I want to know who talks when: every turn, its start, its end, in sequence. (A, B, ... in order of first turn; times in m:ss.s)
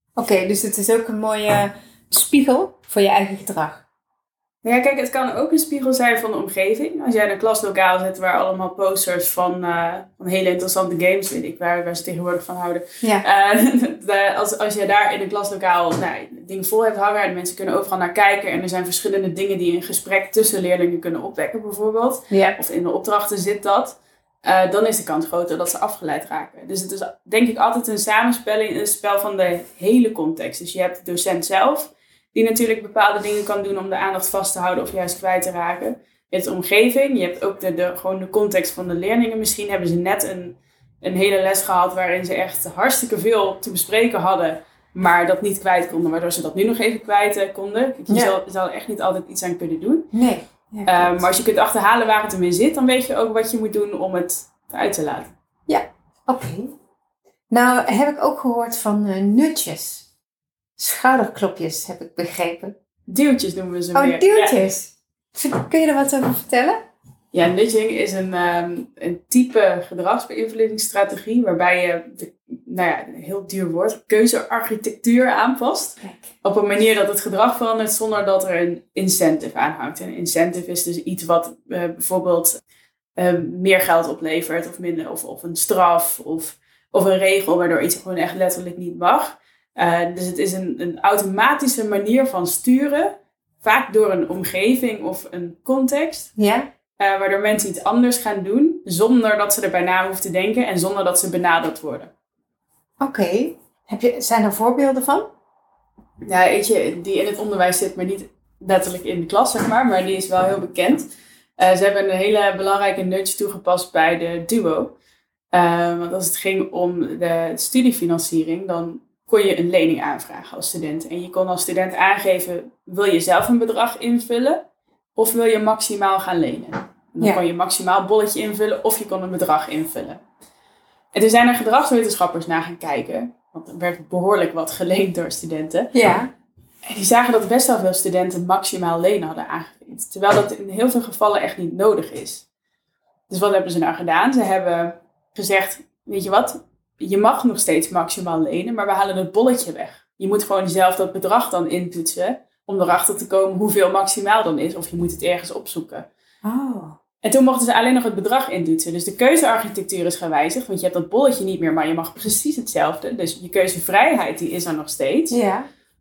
0:00.2-0:03.8 A
0:04.6-0:50.1 B
0:22.3-0:22.6 A
0:48.1-0:48.3 A
0:50.1-0:51.2 A
0:50.9-0:55.3 B
0:55.7-0:56.7 A
0:57.5-1:00.1 A
1:00.8-1:02.8 A
1:03.1-1:04.6 B
1:03.9-1:06.8 A
1:07.3-1:22.6 B
1:16.0-1:16.3 A
1:23.2-1:36.3 B
1:36.4-1:36.7 A
1:37.0-1:42.1 B
1:43.0-1:45.3 A
1:46.2-1:51.1 B
1:51.6-1:54.9 B
1:55.5-2:04.6 B
2:05.2-2:10.2 B
2:11.1-2:15.9 B
2:15.9-2:16.3 A
2:16.9-2:22.4 B
2:23.3-2:36.1 B
2:36.4-2:37.0 A
2:37.2-2:45.4 B
2:45.3-2:45.7 A